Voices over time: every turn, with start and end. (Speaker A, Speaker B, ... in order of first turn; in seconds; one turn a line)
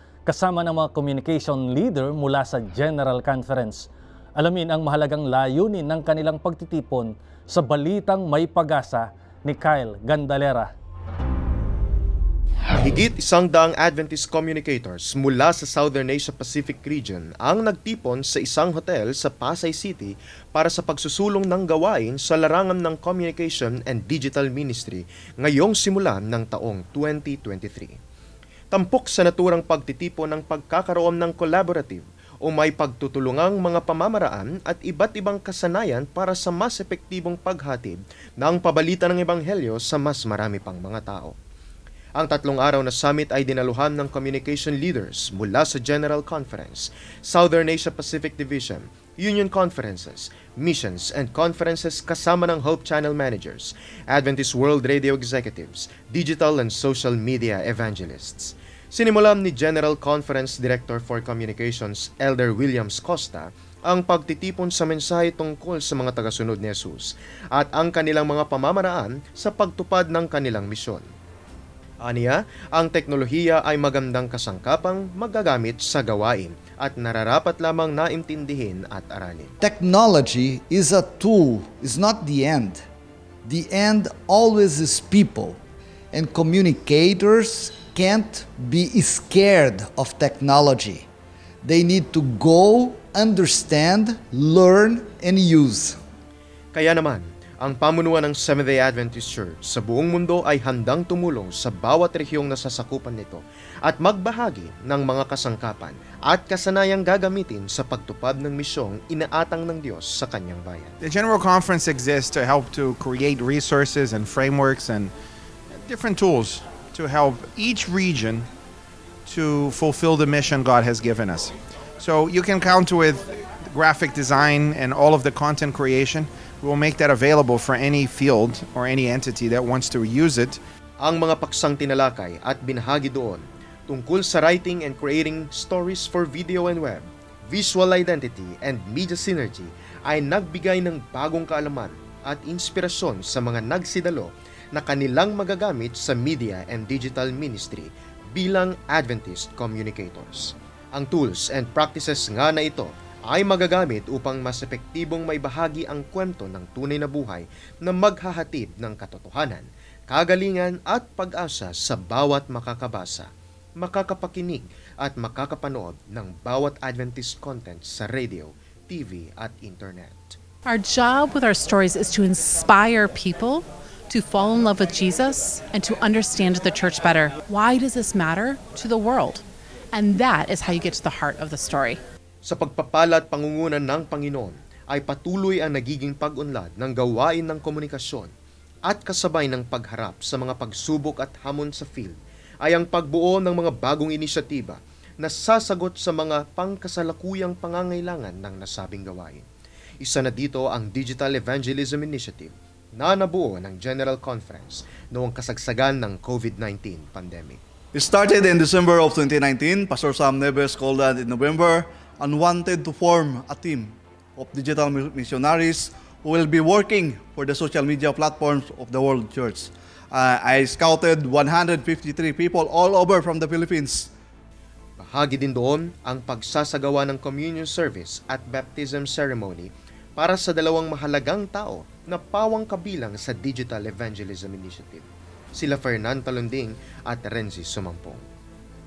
Speaker A: 0.2-10.7
Speaker B: 12.8-28.0
Speaker B: 28.7-41.4
Speaker B: 42.2-71.0
Speaker B: 72.0-79.5
Speaker C: 79.6-82.8
Speaker C: 83.5-85.6
Speaker C: 86.1-91.1
Speaker C: 91.6-96.0
Speaker B: 96.7-110.9
Speaker D: 111.0-115.1
Speaker D: 115.8-118.5
Speaker D: 119.3-130.6
Speaker B: 131.0-170.4
Speaker E: 170.7-182.0
Speaker B: 182.5-188.3
Speaker B: 188.9-199.5
Speaker B: 200.0-207.6
Speaker F: 207.9-224.1
Speaker B: 225.0-238.2